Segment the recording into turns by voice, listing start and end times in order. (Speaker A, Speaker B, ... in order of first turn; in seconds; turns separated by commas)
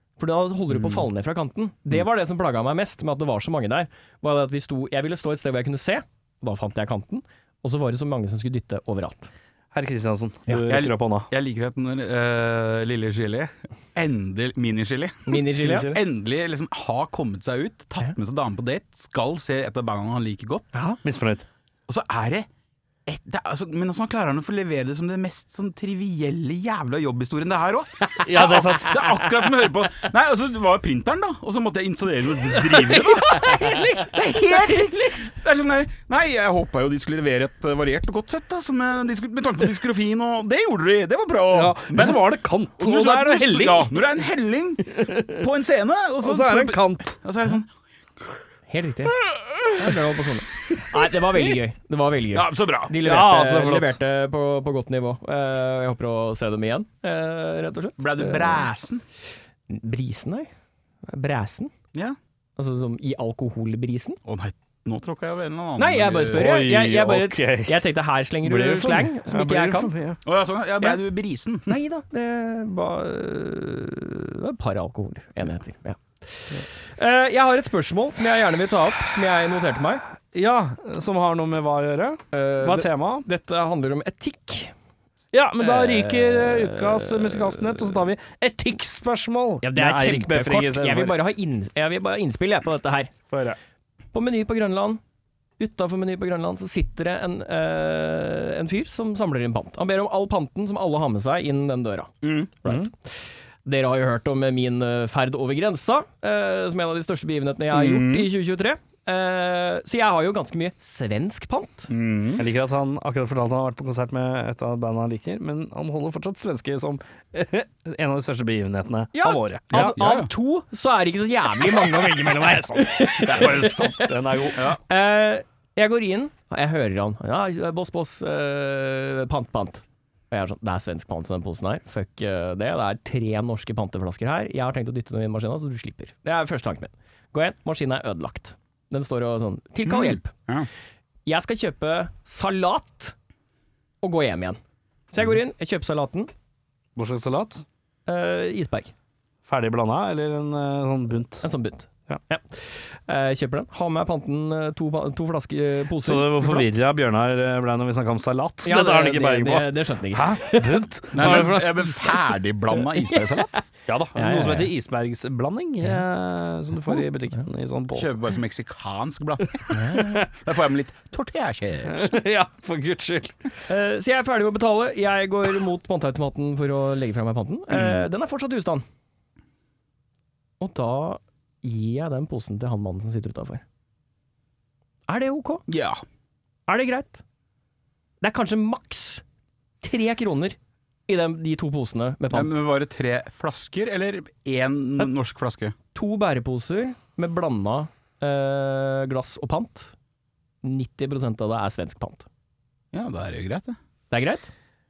Speaker A: 0.2-9.3, Speaker B: 9.7-11.3, Speaker C: 10.7-20.7, Speaker A: 15.3-16.0, Speaker B: 15.6-15.9, Speaker A: 20.7-21.0, Speaker B: 21.0-21.4, Speaker C: 21.9-22.5, Speaker C: 23.1-42.2, Speaker B: 28.2-29.5, Speaker B: 32.5-34.8, Speaker A: 33.5-33.8, Speaker B: 41.5-44.0, Speaker C: 42.8-47.7, Speaker B: 44.9-45.4, Speaker B: 46.2-47.2, Speaker A: 48.7-49.2, Speaker A: 49.7-58.7, Speaker C: 52.3-53.0, Speaker B: 53.0-54.0, Speaker C: 58.0-59.0, Speaker A: 59.7-60.5, Speaker A: 61.1-61.7, Speaker A: 62.6-64.2, Speaker C: 64.2-66.5, Speaker A: 65.8-69.9, Speaker B: 66.3-67.8, Speaker B: 68.4-70.2, Speaker C: 70.2-71.7, Speaker A: 71.7-80.0, Speaker B: 80.3-83.2, Speaker A: 82.3-84.7, Speaker B: 85.3-91.2, Speaker A: 85.6-88.0, Speaker A: 89.6-93.1, Speaker B: 93.3-93.6, Speaker A: 94.1-95.0, Speaker A: 95.6-111.9, Speaker C: 102.2-102.5, Speaker B: 102.6-102.9, Speaker C: 107.7-108.3, Speaker C: 111.9-112.4, Speaker B: 112.4-120.0, Speaker A: 119.1-124.1, Speaker C: 119.7-120.3, Speaker C: 122.3-124.8, Speaker B: 123.4-124.7, Speaker A: 124.9-140.3, Speaker C: 139.8-140.7, Speaker A: 141.2-143.1, Speaker A: 144.0-144.6, Speaker A: 145.1-146.3, Speaker B: 146.9-147.6, Speaker A: 148.1-148.9, Speaker B: 149.5-151.4, Speaker A: 151.4-156.7, Speaker B: 156.0-162.0, Speaker A: 158.6-160.8, Speaker C: 161.1-163.5, Speaker B: 163.9-168.2, Speaker A: 164.1-164.7, Speaker C: 167.9-172.1, Speaker A: 169.7-170.2, Speaker B: 169.9-170.3, Speaker B: 171.9-173.5, Speaker A: 173.7-178.8, Speaker C: 177.7-178.1, Speaker A: 180.6-183.6, Speaker A: 185.1-185.6, Speaker C: 185.7-186.0, Speaker A: 186.7-187.2, Speaker A: 188.2-189.2, Speaker A: 189.8-192.6, Speaker C: 192.3-195.7, Speaker A: 195.9-199.9, Speaker A: 200.6-202.3, Speaker C: 202.9-203.8, Speaker A: 204.1-204.5